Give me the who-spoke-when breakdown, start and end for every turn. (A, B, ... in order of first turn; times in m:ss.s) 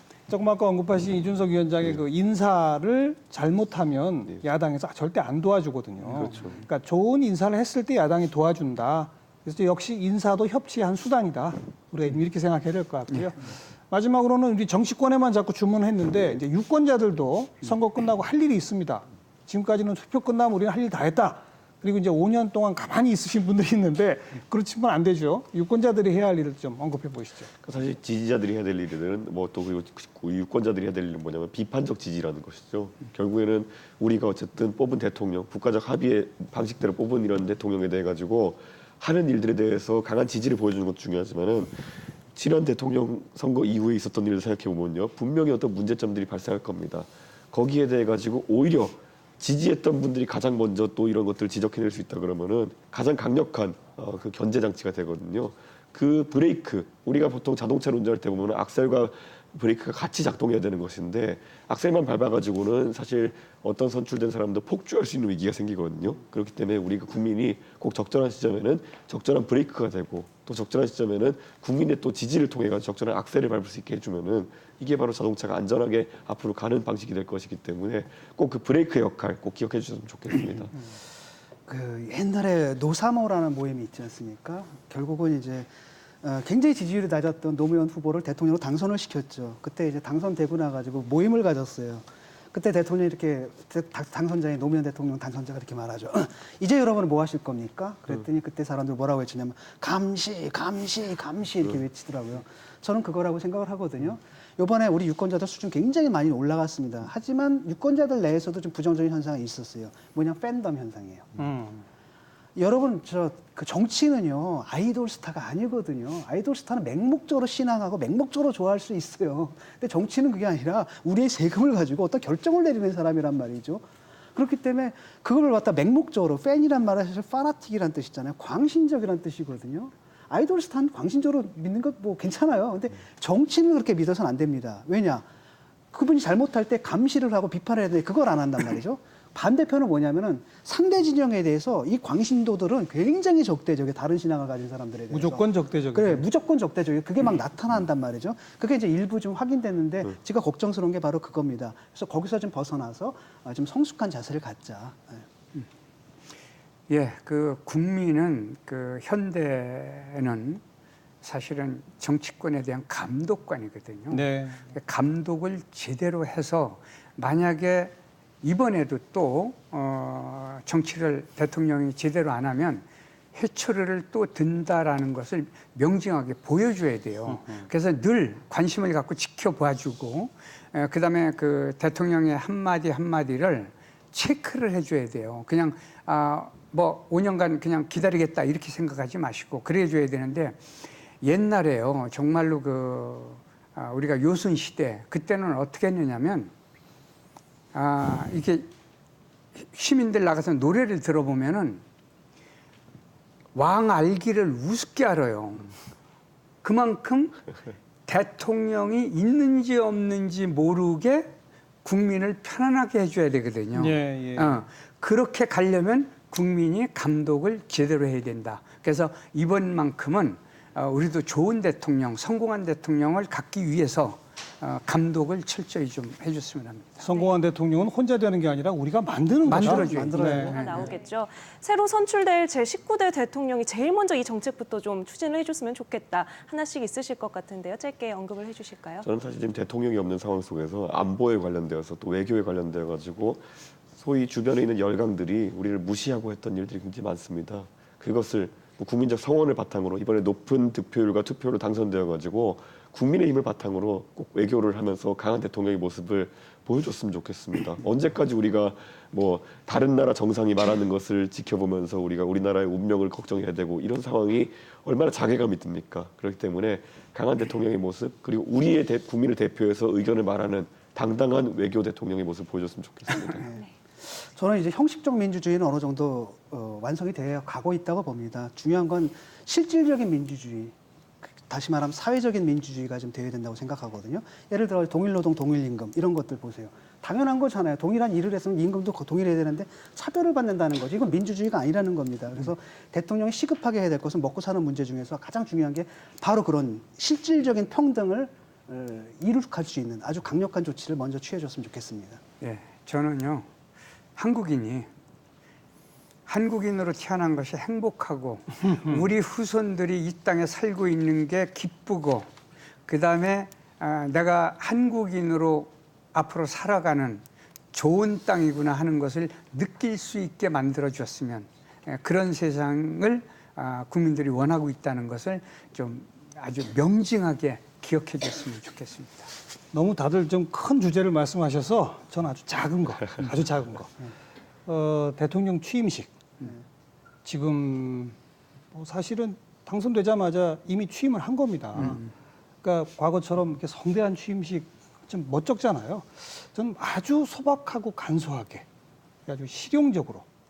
0:00.3-0:27.5 A
0:06.2-0:06.6 B
0:27.6-1:20.7 B
1:21.7-1:25.7 C
1:26.2-1:51.4 C
1:51.4-1:51.8 A
1:52.5-2:15.3 C
2:15.9-2:35.2 C
2:25.1-2:26.2 A
2:36.9-2:40.6 D
2:41.2-3:10.6 D
2:44.1-2:44.6 A
3:11.2-3:16.5 D
3:17.7-3:18.7 D
3:19.6-3:21.8 D
3:23.5-3:25.7 D
3:26.6-3:27.4 D
3:28.0-3:31.3 D
3:31.8-3:47.1 D
3:33.8-3:34.6 A
3:47.0-3:50.5 A
3:49.4-3:50.9 D
3:49.5-3:50.9 C
3:50.2-3:59.1 E
3:59.0-4:03.4 B
4:04.0-4:33.4 B
4:33.3-5:02.2 C
5:02.4-5:03.5 D
5:04.2-5:04.9 D
5:06.3-5:12.3 D
5:12.9-5:29.3 D
5:29.7-5:34.1 A
5:34.6-5:36.1 A
5:37.2-5:38.2 A
5:38.7-5:42.1 A
5:41.8-5:42.0 D
5:42.6-5:48.6 A
5:49.2-5:50.2 A